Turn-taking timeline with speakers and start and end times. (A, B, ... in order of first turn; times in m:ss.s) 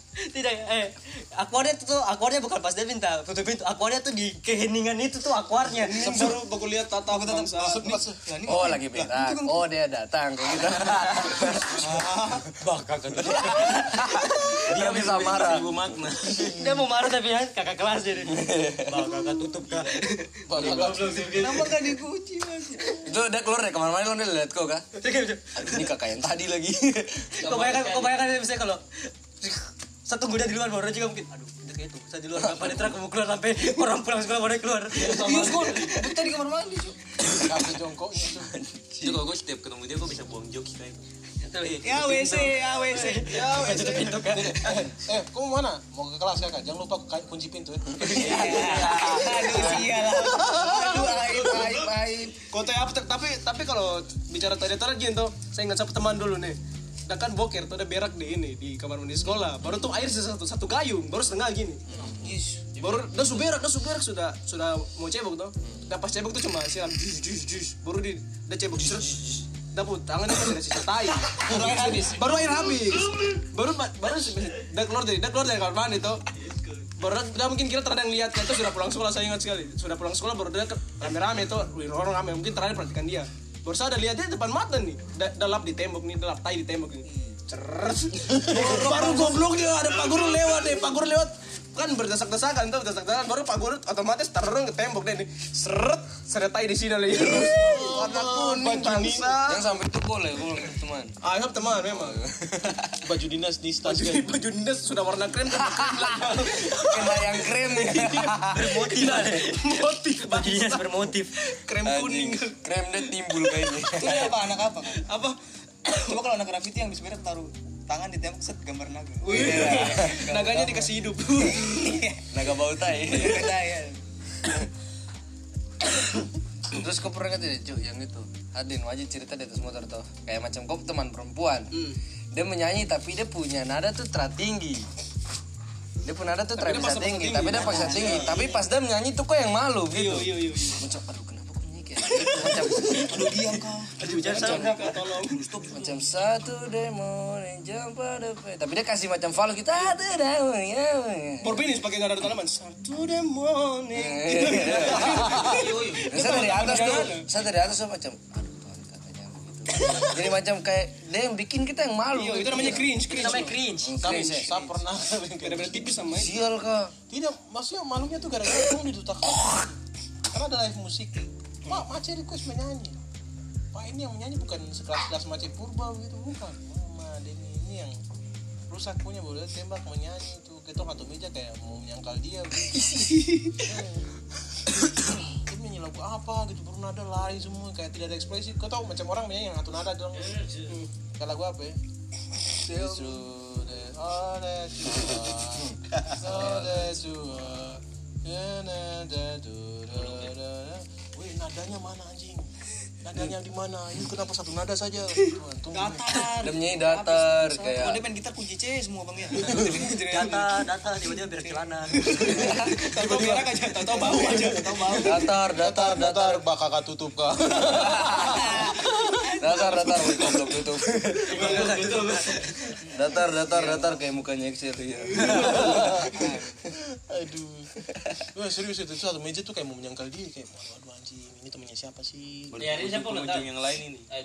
0:00.2-0:06.1 A
0:05.8-0:08.0 B
0:06.0-0:06.3 C
0:07.0-0:09.6 D
0:07.6-0:08.2 C
0:08.4-0:12.0 E
0:11.8-0:12.5 D
0:12.6-0:16.6 F
0:13.2-0:15.8 E
0:16.4-0:20.7 A
0:18.2-0:19.1 E
0:18.9-0:19.9 F
0:20.5-0:21.6 C
0:20.6-0:21.7 F
0:21.1-0:23.0 D
0:23.0-0:25.0 E
0:25.0-0:25.8 A
0:25.5-0:27.9 E
0:27.4-0:35.9 A
0:32.3-0:33.0 E
0:35.0-0:37.0 D
0:35.1-0:35.9 C
0:37.2-0:39.2 E
0:37.3-0:38.6 C
0:39.0-0:41.0 F
0:41.4-0:44.9 A
0:41.8-0:43.9 D
0:43.3-0:44.0 B
0:43.4-0:51.9 C
0:48.0-0:49.9 E
0:48.0-0:52.4 D
0:52.5-1:01.8 B
1:01.9-1:03.0 E
1:02.0-1:02.7 D
1:02.8-1:16.2 B
1:08.8-1:09.4 E
1:11.4-1:12.1 C
1:11.5-1:12.2 D
1:16.3-1:16.9 F
1:17.0-1:39.7 B
1:27.1-1:27.4 D
1:28.3-1:29.4 C
1:28.6-1:29.4 D
1:37.1-1:39.4 C
1:37.2-1:37.5 E
1:39.4-1:41.1 E
1:41.2-1:42.2 B
1:41.8-1:43.0 E
1:43.0-1:44.3 C
1:43.8-1:52.6 B
1:45.5-1:48.9 E
1:48.5-1:51.3 A
1:51.8-1:54.4 E
1:53.9-1:55.0 D
1:54.9-1:55.4 B
1:55.9-1:56.1 B
1:55.9-2:04.0 D
1:59.2-2:02.0 B
1:59.3-2:00.3 E
2:02.3-2:03.6 E
2:06.7-2:11.7 E
2:11.7-2:12.0 B
2:12.3-2:14.9 E
2:16.0-2:23.3 E
2:16.6-2:18.3 B
2:17.5-2:18.6 D
2:19.9-2:20.8 B
2:22.3-2:26.2 D
2:24.0-2:25.4 B
2:24.0-2:24.8 A
2:24.3-2:24.7 E
2:25.7-2:31.6 E
2:31.4-2:37.3 B
2:33.9-2:44.6 E
2:35.2-2:35.8 C
2:42.1-2:43.6 B
2:43.0-2:44.0 A
2:43.9-2:46.0 C
2:45.4-2:46.5 B
2:46.1-2:46.9 E
2:47.1-2:49.7 C
2:49.2-2:49.7 E
2:50.3-2:53.0 C
2:53.7-2:58.0 C
2:58.7-3:02.9 C
3:02.8-3:03.2 D
3:03.6-3:10.6 C
3:10.6-3:10.9 B
3:11.2-3:11.8 C
3:12.5-3:22.5 C
3:12.6-3:13.2 B
3:16.3-3:16.9 E
3:23.0-3:26.2 C
3:25.7-3:27.8 B
3:26.1-3:26.4 D
3:26.4-3:28.0 E
3:27.7-3:30.6 D
3:29.4-3:29.9 C
3:29.5-3:30.4 B
3:30.0-3:32.2 A
3:31.9-3:35.3 B
3:32.1-3:40.5 C
3:32.3-3:32.8 E
3:35.0-3:36.4 E
3:37.7-3:38.6 E
3:38.7-3:39.2 B
3:39.4-3:41.9 E
3:41.3-3:42.8 A
3:41.3-3:42.5 F
3:42.9-3:46.2 E
3:43.4-3:44.0 D
3:45.1-3:46.0 B
3:45.2-3:47.7 C
3:46.1-3:46.6 D
3:48.3-3:52.6 C
3:52.5-3:54.1 F
3:52.9-3:53.4 E